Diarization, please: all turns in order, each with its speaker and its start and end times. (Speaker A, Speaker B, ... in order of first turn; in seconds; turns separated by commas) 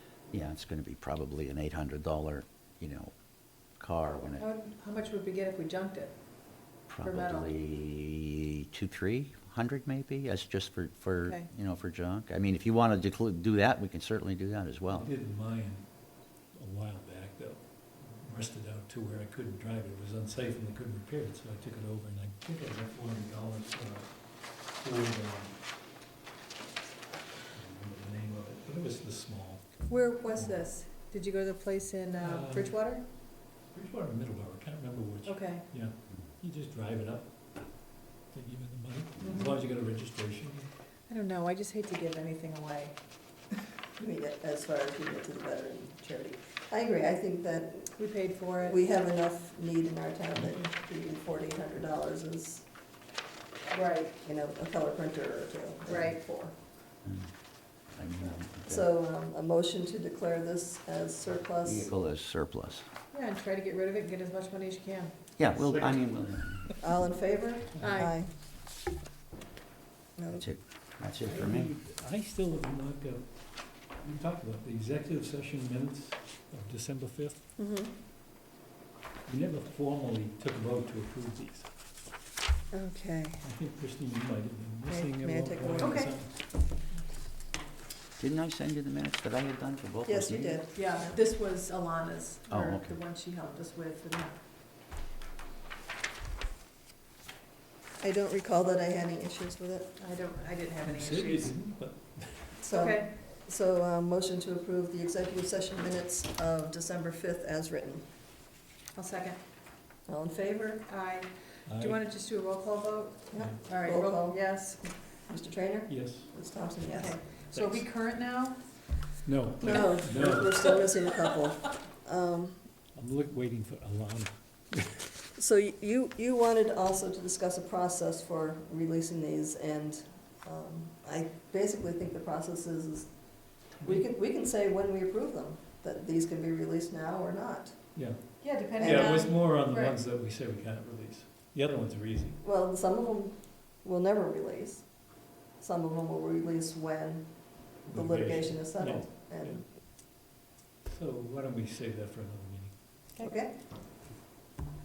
Speaker A: 0.3-3.1, Speaker A: 3.8-4.4, Speaker B: 4.4-6.2, Speaker A: 6.9-15.1, Speaker B: 7.0-7.5, Speaker C: 14.9-15.8, Speaker C: 16.5-24.1, Speaker C: 24.7-25.5, Speaker C: 27.5-30.6, Speaker B: 29.9-33.0, Speaker C: 32.2-32.8, Speaker C: 33.6-37.3, Speaker B: 35.2-35.6, Speaker C: 38.3-40.7, Speaker B: 39.2-39.6, Speaker B: 41.1-43.0, Speaker D: 44.0-47.9, Speaker B: 48.0-48.8, Speaker D: 48.6-52.6, Speaker B: 53.7-54.1, Speaker D: 54.2-56.5, Speaker B: 55.9-56.2, Speaker A: 57.0-57.3, Speaker A: 57.9-58.8, Speaker D: 58.6-61.9, Speaker A: 61.6-62.9, Speaker B: 63.1-65.1, Speaker A: 65.4-66.7, Speaker C: 65.5-66.8, Speaker D: 66.8-68.3, Speaker C: 67.8-68.0, Speaker B: 67.8-68.1, Speaker D: 70.2-70.5, Speaker A: 70.3-71.7, Speaker C: 71.2-77.4, Speaker D: 77.6-77.9, Speaker C: 79.2-81.7, Speaker D: 82.7-83.4, Speaker C: 83.4-86.3, Speaker D: 84.9-86.0, Speaker B: 85.8-86.1, Speaker A: 88.2-90.6, Speaker D: 90.0-91.1, Speaker B: 90.7-94.4, Speaker A: 92.5-93.0, Speaker D: 98.0-99.9, Speaker B: 100.0-101.6, Speaker C: 100.8-102.7, Speaker D: 102.6-108.1, Speaker B: 102.7-103.1, Speaker B: 108.9-109.4, Speaker D: 110.1-110.8, Speaker B: 110.9-114.9, Speaker C: 111.7-112.0, Speaker D: 113.3-114.7, Speaker C: 113.3-113.6, Speaker D: 115.3-117.2, Speaker C: 115.9-116.4, Speaker B: 116.9-118.9, Speaker C: 117.4-117.8, Speaker C: 119.2-120.7, Speaker D: 119.6-122.7, Speaker B: 119.7-120.5, Speaker C: 122.9-125.0, Speaker D: 125.3-133.2, Speaker D: 133.8-137.8, Speaker C: 137.9-142.4, Speaker B: 138.4-139.9, Speaker D: 138.8-139.2, Speaker D: 142.4-144.8, Speaker D: 145.6-149.6, Speaker C: 147.9-149.6, Speaker C: 150.8-152.7, Speaker D: 153.2-153.5